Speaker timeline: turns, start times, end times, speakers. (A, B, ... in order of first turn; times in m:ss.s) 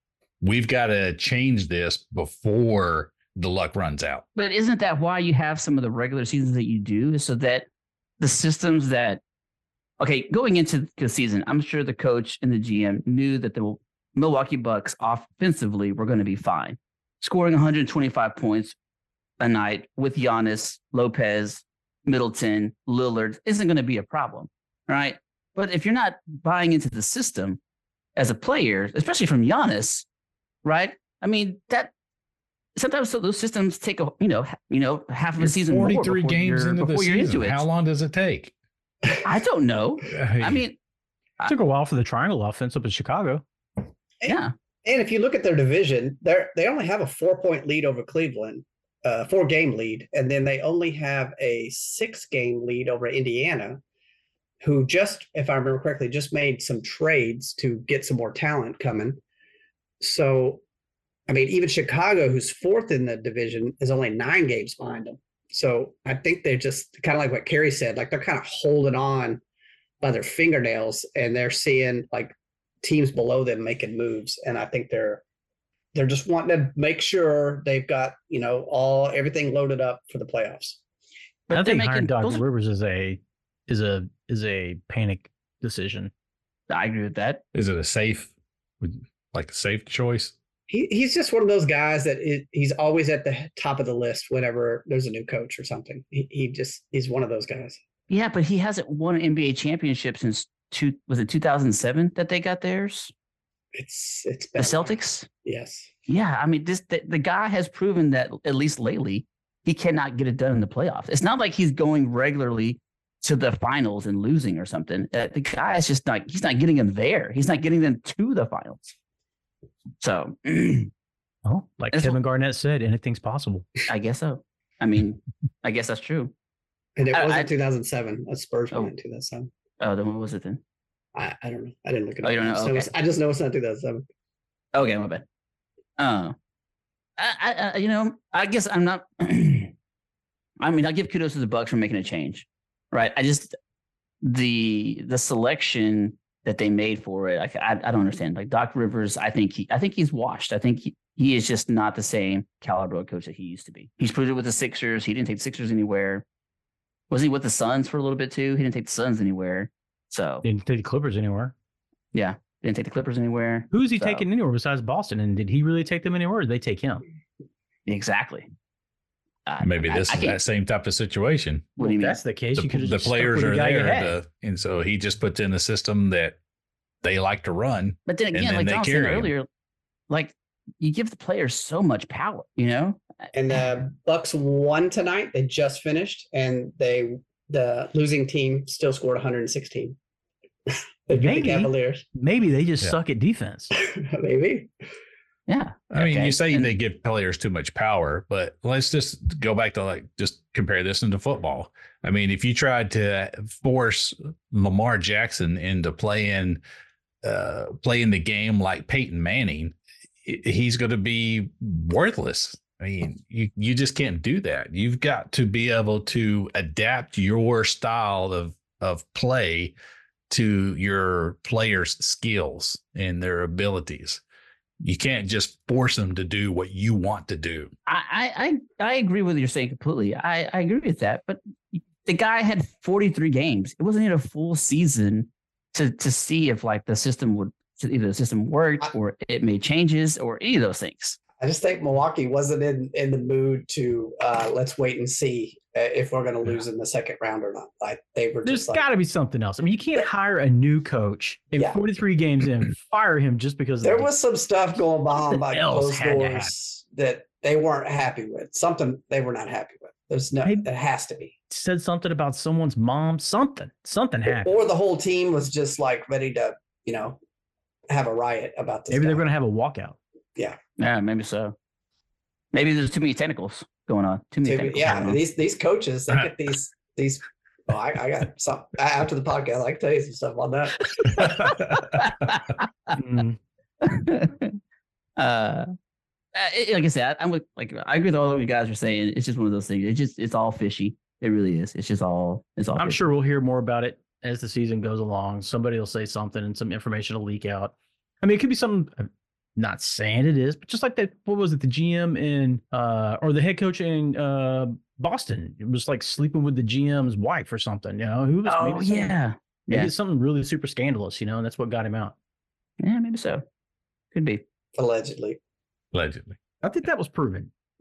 0:00.4-0:04.2 A
0:04.3-0:07.6 B
0:08.2-0:09.2 B
0:10.0-0:18.7 B
0:19.4-0:27.6 B
0:28.2-0:30.0 B
0:30.6-0:31.9 B
0:32.8-0:37.6 B
0:35.4-0:38.5 A
0:39.2-0:40.8 B
0:40.1-0:40.6 A
0:41.4-0:43.4 C
0:44.2-0:53.8 D
0:44.2-0:44.5 B
0:54.6-0:59.2 D
1:00.0-1:00.6 D
1:01.3-1:09.4 D
1:10.0-1:15.2 D
1:15.9-1:20.8 D
1:21.5-1:22.4 B
1:21.5-1:26.1 C
1:26.7-1:27.4 B
1:27.5-1:30.3 A
1:30.7-1:37.8 D
1:38.1-1:43.1 B
1:43.7-1:45.9 D
1:44.6-1:45.3 B
1:46.1-1:58.9 B
2:00.0-2:00.9 B
2:01.4-2:03.7 C
2:03.9-2:06.3 B
2:07.0-2:09.5 D
2:07.1-2:07.5 B
2:09.8-2:10.6 B
2:11.1-2:14.0 D
2:12.2-2:12.9 B
2:14.7-2:15.2 B
2:16.0-2:16.3 B
2:17.2-2:19.7 B
2:20.6-2:23.5 B
2:24.2-2:36.2 B
2:37.1-2:40.4 B
2:40.4-2:41.5 C
2:42.1-2:44.2 B
2:43.7-2:47.0 C
2:47.8-2:48.5 B
2:49.4-2:50.4 B
2:49.6-2:51.7 A
2:51.8-2:52.2 B
2:51.8-2:54.2 C
2:52.5-2:56.4 A
2:57.0-2:59.3 A
2:58.1-2:59.5 B
3:00.1-3:03.0 B
3:03.3-3:10.0 D
3:10.7-3:12.0 D
3:11.2-3:13.7 C
3:13.8-3:14.7 D
3:15.5-3:16.7 B
3:15.9-3:26.6 A
3:27.2-3:39.7 A
3:40.3-3:44.2 A
3:44.8-3:47.7 A
3:47.8-4:01.2 B
4:01.4-4:08.8 D
4:08.4-4:14.1 C
4:13.8-4:21.3 D
4:15.2-4:16.5 C
4:21.5-4:24.5 C
4:24.4-4:27.2 D
4:27.9-4:29.2 D
4:28.9-4:30.0 C
4:30.8-4:31.5 B
4:32.5-4:35.2 B
4:34.4-4:41.6 D
4:41.0-4:42.9 B
4:41.2-4:42.0 A
4:42.9-4:43.4 C
4:43.8-4:44.5 B
4:45.2-4:45.7 B
4:46.3-4:53.0 B
4:52.8-5:09.2 C
5:08.4-5:09.9 B
5:09.7-5:12.1 C
5:12.8-5:13.4 B
5:14.1-5:14.4 B
5:14.8-5:15.4 D
5:15.9-5:16.4 A
5:16.6-5:17.5 C